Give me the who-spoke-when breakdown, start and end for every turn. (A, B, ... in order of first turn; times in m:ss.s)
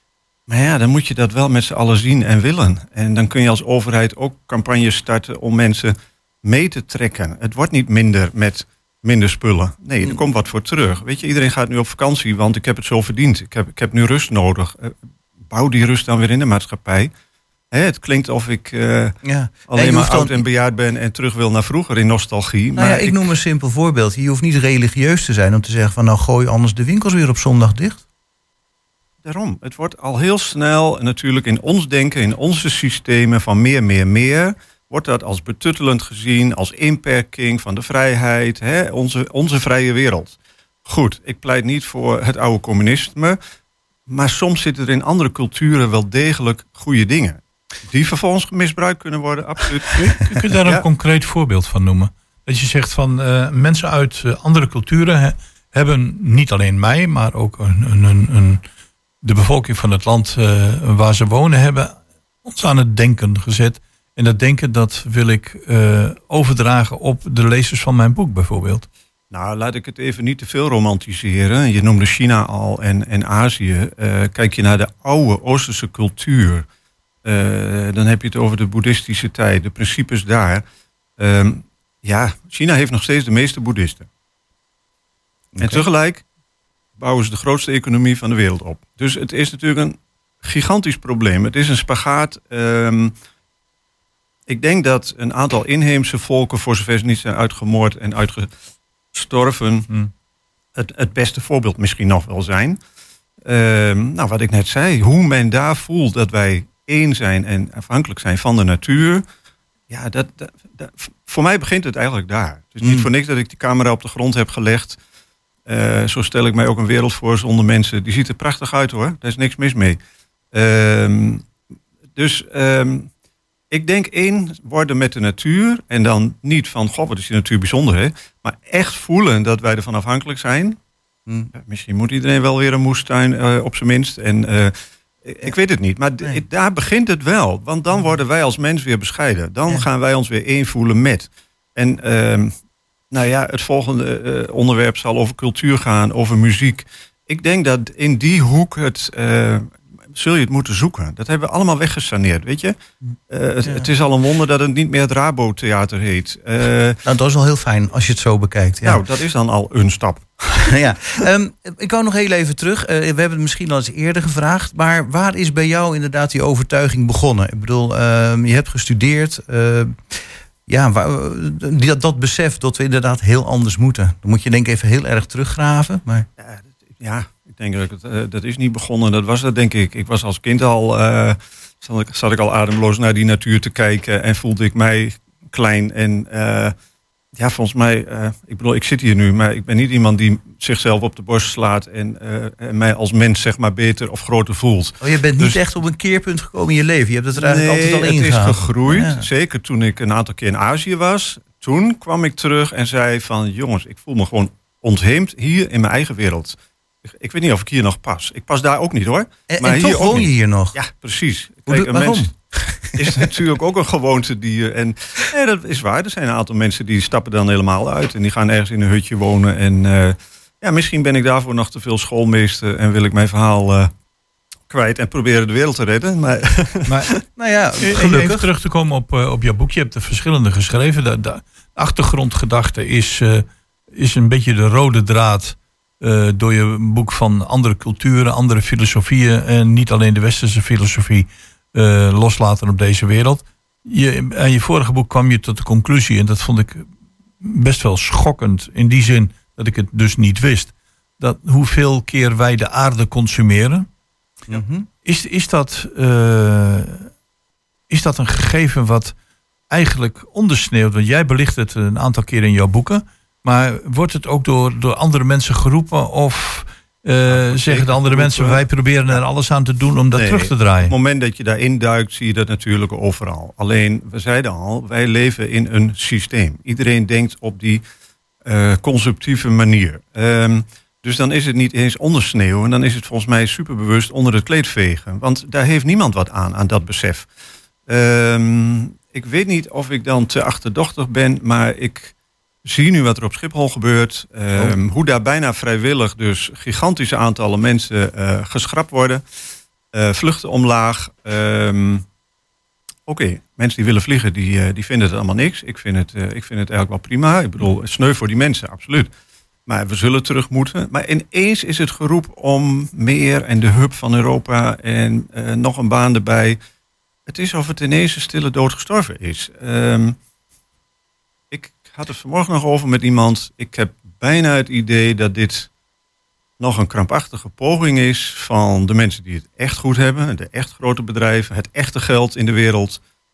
0:00.5-0:17.1 A
0:17.7-0:19.2 A
0:19.2-0:20.4 B
0:19.7-0:23.2 A
0:22.8-0:28.0 B
0:29.2-0:43.4 A
0:44.1-0:50.1 A
0:49.9-0:58.6 C
0:59.2-1:08.9 C
1:09.3-1:16.6 A
1:17.2-1:20.6 A
1:21.2-1:24.1 A
1:25.5-1:25.8 B
1:25.6-1:26.2 A
1:27.0-1:33.1 A
1:34.5-1:38.5 A
1:39.1-1:39.9 A
1:40.7-1:42.8 A
1:43.4-1:49.2 A
1:49.9-1:55.0 A
1:52.8-1:53.1 B
1:55.6-2:00.0 A
2:00.5-2:01.4 A
2:02.1-2:03.1 A
2:03.7-2:10.8 A
2:11.5-2:22.5 A
2:23.1-2:32.8 A
2:33.3-2:37.0 A
2:37.0-2:39.0 B
2:38.8-2:40.2 A
2:40.5-2:56.3 B
2:56.4-3:06.7 A
3:07.3-3:15.6 A
3:15.0-3:19.3 B
3:17.4-3:32.3 A
3:29.5-3:30.8 B
3:31.7-3:33.2 B
3:33.0-3:43.9 A
3:44.7-3:47.1 A
3:46.9-3:47.1 C
3:47.4-3:48.4 B
3:47.8-4:06.8 C
4:07.4-4:13.9 C
4:14.5-4:14.8 B
4:15.0-4:17.1 C
4:17.9-4:19.1 C
4:19.7-4:30.9 C
4:27.3-4:29.2 A
4:30.1-4:37.8 A
4:38.4-4:47.3 A
4:47.9-4:59.2 A
4:59.9-5:02.0 A
5:03.1-5:09.1 A
5:09.7-5:16.6 A
5:17.3-5:20.2 A
5:21.5-5:25.7 A
5:26.6-5:33.0 A